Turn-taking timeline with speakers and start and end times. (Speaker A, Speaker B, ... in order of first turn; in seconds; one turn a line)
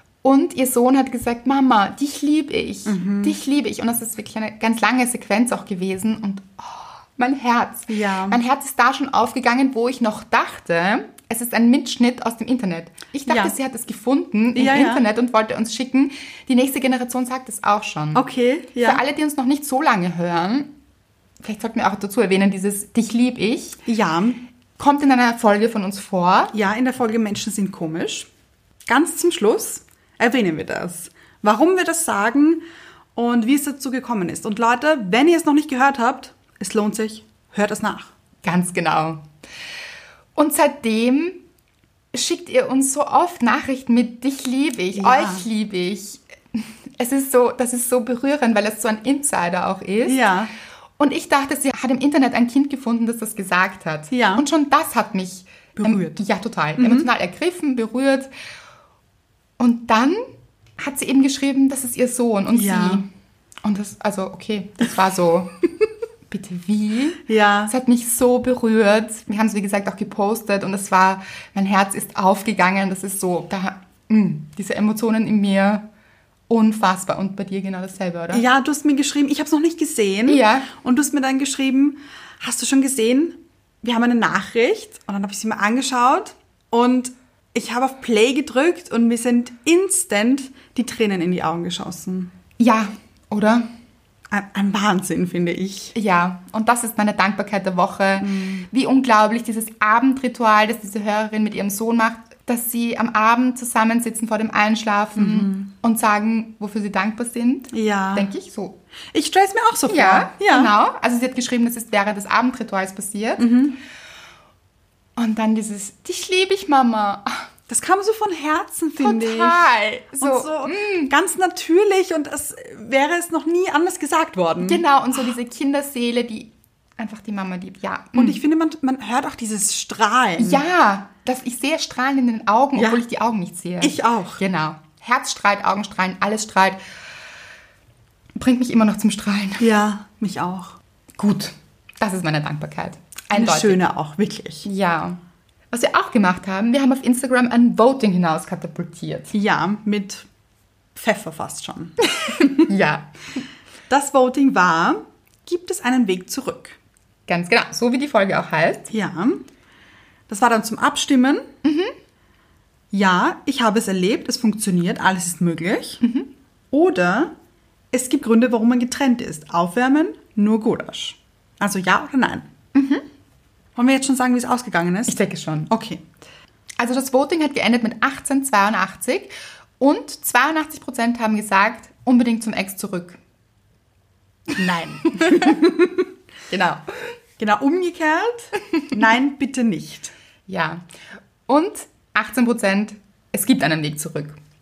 Speaker A: 0.2-18.2
Speaker B: 2.9-3.4
Speaker B: 7.9-8.4
Speaker B: 13.3-13.5
Speaker B: 14.6-15.0
Speaker B: 18.1-19.0
Speaker A: 18.8-20.7
Speaker A: 21.4-23.8
Speaker B: 23.9-24.4
Speaker A: 24.8-26.5
Speaker B: 26.5-28.3
Speaker B: 28.9-32.6
Speaker B: 33.1-38.1
Speaker A: 38.4-39.2
Speaker A: 40.4-41.4
Speaker A: 42.1-50.2
Speaker B: 44.9-45.5
Speaker B: 50.0-50.5
Speaker A: 51.0-58.3
Speaker B: 54.1-54.5
Speaker B: 55.8-56.1
Speaker B: 56.8-57.1
Speaker A: 59.6-60.2
Speaker A: 60.8-63.1
Speaker B: 62.5-63.0
Speaker A: 63.6-65.6
Speaker A: 66.3-75.9
Speaker B: 67.3-67.7
Speaker A: 76.5-78.4
Speaker B: 78.3-92.3
Speaker A: 80.3-80.7
Speaker A: 92.6-93.7
Speaker B: 94.3-96.0
Speaker A: 96.0-108.8
Speaker B: 98.2-98.7
Speaker B: 105.2-105.7
Speaker B: 107.7-108.3
Speaker B: 109.1-110.7
Speaker A: 109.9-113.6
Speaker B: 113.4-113.8
Speaker A: 115.2-117.5
Speaker B: 117.7-124.8
Speaker A: 119.0-121.1
Speaker A: 124.6-128.4
Speaker B: 128.2-130.7
Speaker A: 130.4-136.8
Speaker B: 132.8-133.0
Speaker B: 133.8-134.4
Speaker A: 138.4-139.7
Speaker B: 139.6-140.8
Speaker A: 141.2-143.8
Speaker B: 143.3-144.7
Speaker A: 144.7-145.2
Speaker A: 145.7-149.3
Speaker B: 149.3-150.3
Speaker B: 150.9-152.6
Speaker A: 152.1-153.1
Speaker B: 153.9-156.8
Speaker A: 157.3-158.9
Speaker B: 158.9-159.4
Speaker B: 160.3-161.5
Speaker A: 161.6-161.9
Speaker B: 162.9-166.0
Speaker A: 166.0-166.3
Speaker B: 166.7-167.3
Speaker B: 167.9-172.5
Speaker A: 172.8-173.0
Speaker B: 173.8-175.2
Speaker A: 175.1-175.7
Speaker B: 175.7-176.0
Speaker A: 176.8-183.2
Speaker B: 184.6-186.0
Speaker A: 185.0-185.7
Speaker A: 186.5-186.9
Speaker B: 187.4-190.1
Speaker A: 190.5-190.8
Speaker A: 191.5-194.4